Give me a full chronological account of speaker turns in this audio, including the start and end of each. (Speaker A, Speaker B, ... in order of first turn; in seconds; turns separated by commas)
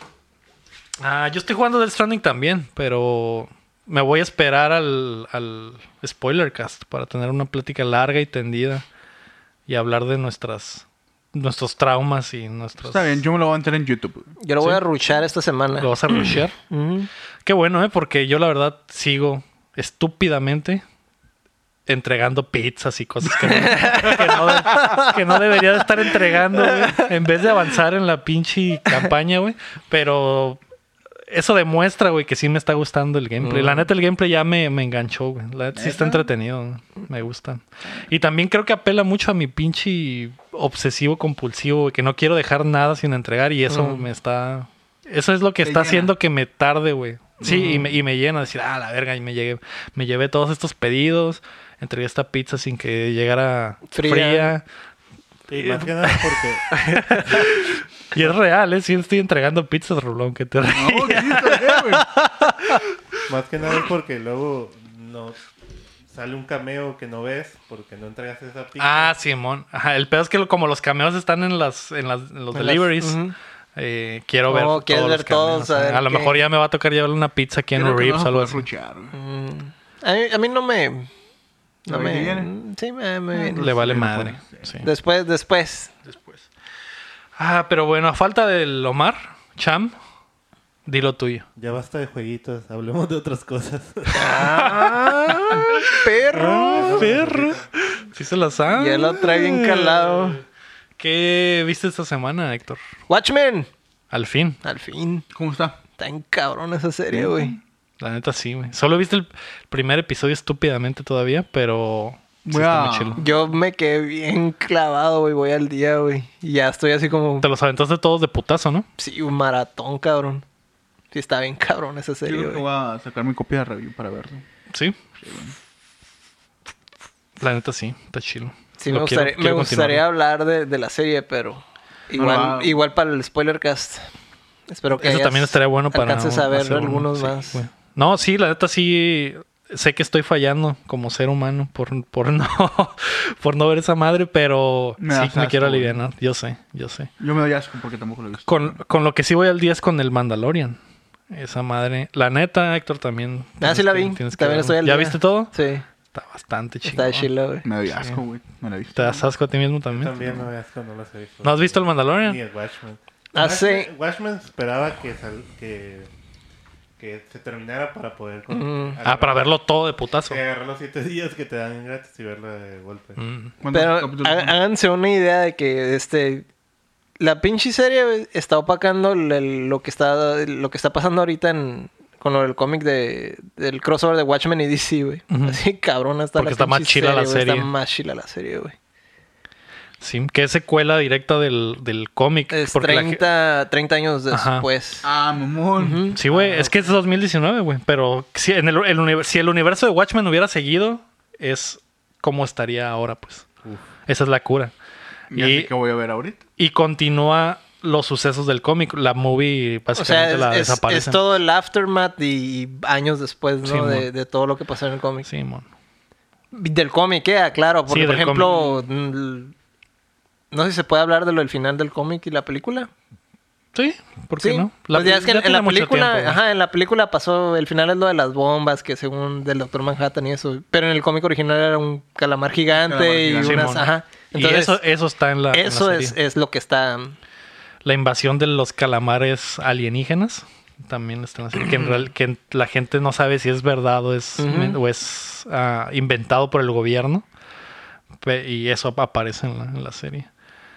Speaker A: 1.0-8.8, Speaker A: 9.7-13.2, Speaker B: 12.8-14.3, Speaker C: 14.4-17.1, Speaker A: 15.8-16.6, Speaker A: 17.4-20.8, Speaker A: 21.9-30.6, Speaker C: 23.5-25.1, Speaker A: 31.3-54.6, Speaker C: 33.4-33.9, Speaker B: 35.7-36.3, Speaker C: 43.7-44.0, Speaker B: 45.6-46.1, Speaker C: 47.4-47.9, Speaker C: 53.9-54.5, Speaker D: 55.5-56.7, Speaker C: 56.7-57.4, Speaker A: 57.1-61.7, Speaker B: 60.7-62.1, Speaker C: 62.0-62.3, Speaker D: 63.3-65.4, Speaker D: 66.1-69.1, Speaker A: 68.8-73.2, Speaker C: 72.5-73.3, Speaker A: 73.8-78.6, Speaker C: 74.5-76.3, Speaker B: 77.7-79.1, Speaker C: 79.1-81.1, Speaker C: 81.8-83.6, Speaker B: 81.9-82.5, Speaker B: 83.4-84.8, Speaker A: 83.5-84.8, Speaker C: 84.8-85.9, Speaker A: 87.4-89.9, Speaker A: 90.8-91.5, Speaker D: 91.6-94.5, Speaker C: 94.1-97.1, Speaker A: 94.3-100.4, Speaker D: 96.3-97.7, Speaker C: 98.7-100.4, Speaker A: 101.0-102.8, Speaker C: 103.1-103.7, Speaker A: 104.1-104.6, Speaker C: 104.6-105.2, Speaker B: 105.3-105.8, Speaker C: 106.0-107.5, Speaker B: 107.1-107.6, Speaker A: 108.0-113.2, Speaker B: 112.4-113.3, Speaker C: 113.2-117.5, Speaker A: 117.4-118.9, Speaker C: 119.0-120.4, Speaker C: 121.1-122.6, Speaker B: 122.2-124.4, Speaker A: 124.7-125.0, Speaker B: 125.2-125.6, Speaker A: 127.4-130.0, Speaker C: 128.8-134.1, Speaker B: 132.1-132.8, Speaker C: 134.7-137.6, Speaker A: 135.0-147.1, Speaker B: 145.0-146.0, Speaker B: 147.2-148.8, Speaker A: 148.5-150.8, Speaker A: 151.3-155.5, Speaker C: 153.6-155.8, Speaker A: 156.1-157.3, Speaker C: 156.8-157.7, Speaker B: 157.6-159.3, Speaker A: 158.9-160.4, Speaker D: 159.9-166.1, Speaker A: 161.4-162.4, Speaker C: 163.3-163.9, Speaker D: 167.0-169.4, Speaker C: 168.5-169.0, Speaker A: 169.1-170.4, Speaker D: 170.3-173.2, Speaker A: 173.2-173.5, Speaker B: 173.6-174.6, Speaker C: 173.7-176.4, Speaker C: 177.2-188.7, Speaker A: 185.3-185.6, Speaker A: 186.3-187.7, Speaker A: 190.0-193.2, Speaker C: 192.5-195.1, Speaker A: 194.3-194.7, Speaker B: 195.0-196.2, Speaker C: 195.8-196.2, Speaker A: 196.1-203.4, Speaker D: 196.3-196.8, Speaker A: 204.1-204.7, Speaker B: 205.3-206.4, Speaker A: 205.3-205.7, Speaker A: 206.6-211.4, Speaker C: 209.9-215.3, Speaker A: 213.6-214.1, Speaker A: 215.2-215.7, Speaker C: 216.5-219.5, Speaker A: 217.9-218.7, Speaker C: 220.5-222.9, Speaker A: 223.7-226.4, Speaker C: 224.4-234.8, Speaker B: 232.7-233.8, Speaker A: 233.4-236.2, Speaker C: 235.5-237.1, Speaker A: 237.8-247.2, Speaker C: 241.6-241.9, Speaker C: 244.4-244.8, Speaker A: 248.2-250.3